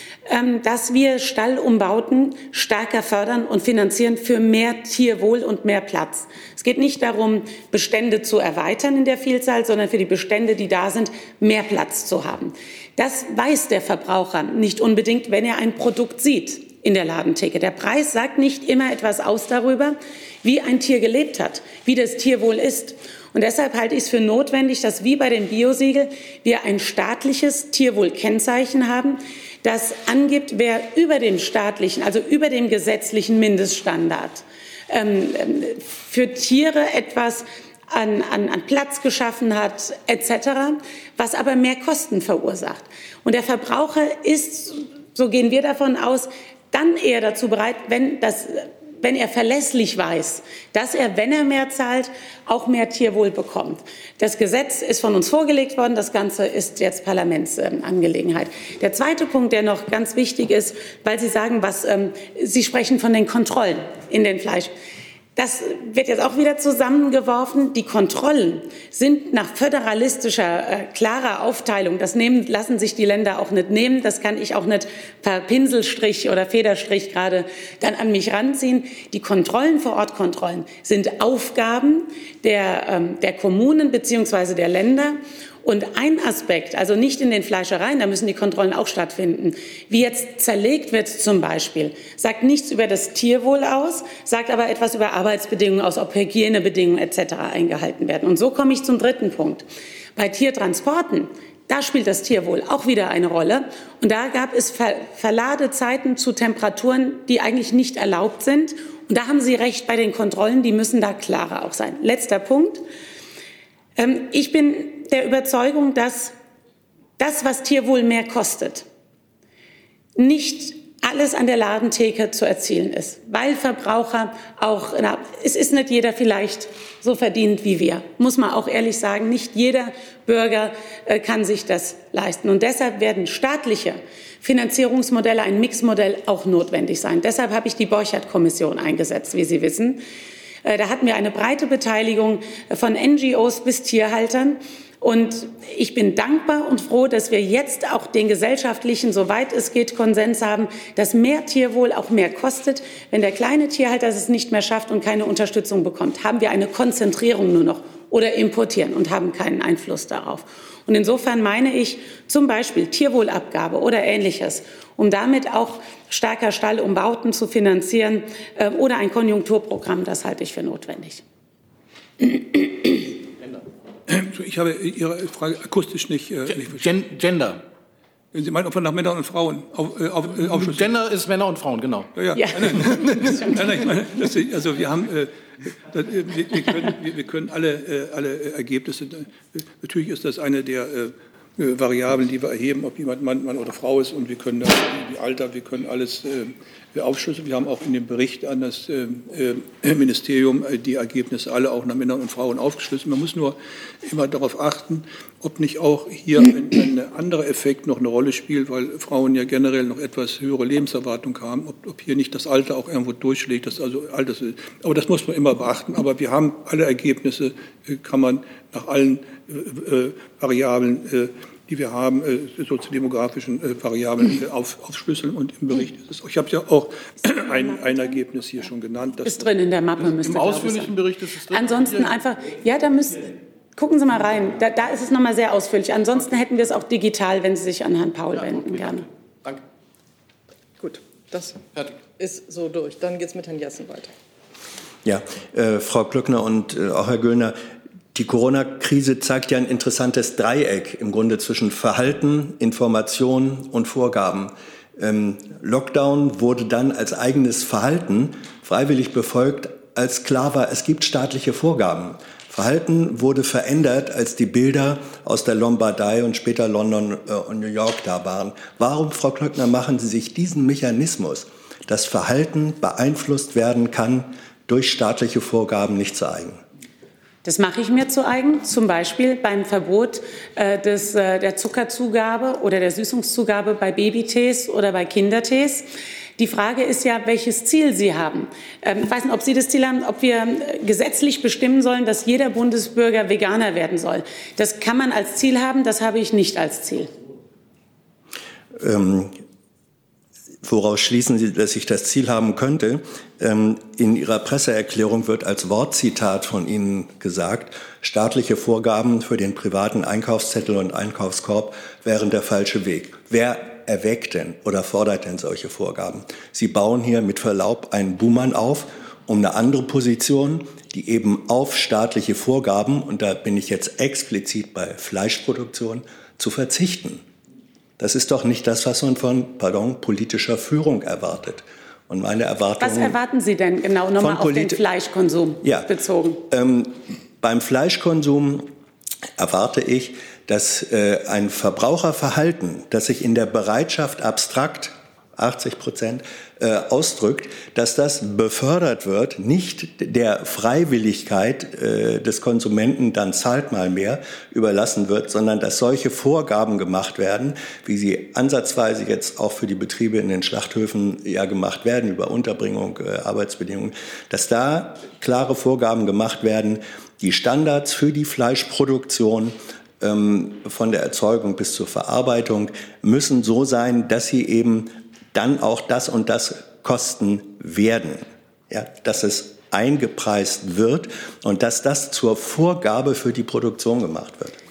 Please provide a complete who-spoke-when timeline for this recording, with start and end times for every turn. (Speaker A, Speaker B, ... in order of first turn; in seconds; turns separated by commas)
Speaker A: 0.3-64.7, Speaker A: 65.3-99.6, Speaker A: 100.2-112.8, Speaker A: 114.0-116.3, Speaker A: 117.2-118.8, Speaker A: 120.2-140.0, Speaker A: 140.6-171.2, Speaker A: 172.2-172.9, Speaker B: 174.1-176.9, Speaker C: 176.6-177.6, Speaker B: 178.3-180.9, Speaker C: 180.5-182.1, Speaker B: 182.1-229.5, Speaker C: 182.6-183.4, Speaker A: 229.2-230.9, Speaker C: 230.0-232.2, Speaker A: 231.5-239.1, Speaker C: 238.4-239.6, Speaker D: 240.8-241.6, Speaker D: 242.2-244.1, Speaker E: 245.0-247.6, Speaker E: 248.1-276.6, Speaker A: 277.4-297.1, Speaker E: 298.8-299.4, Speaker E: 300.6-327.2, Speaker E: 328.0-333.2, Speaker A: 332.8-336.4, Speaker E: 334.2-334.8, Speaker E: 335.6-335.9, Speaker E: 336.5-338.7, Speaker E: 339.4-384.6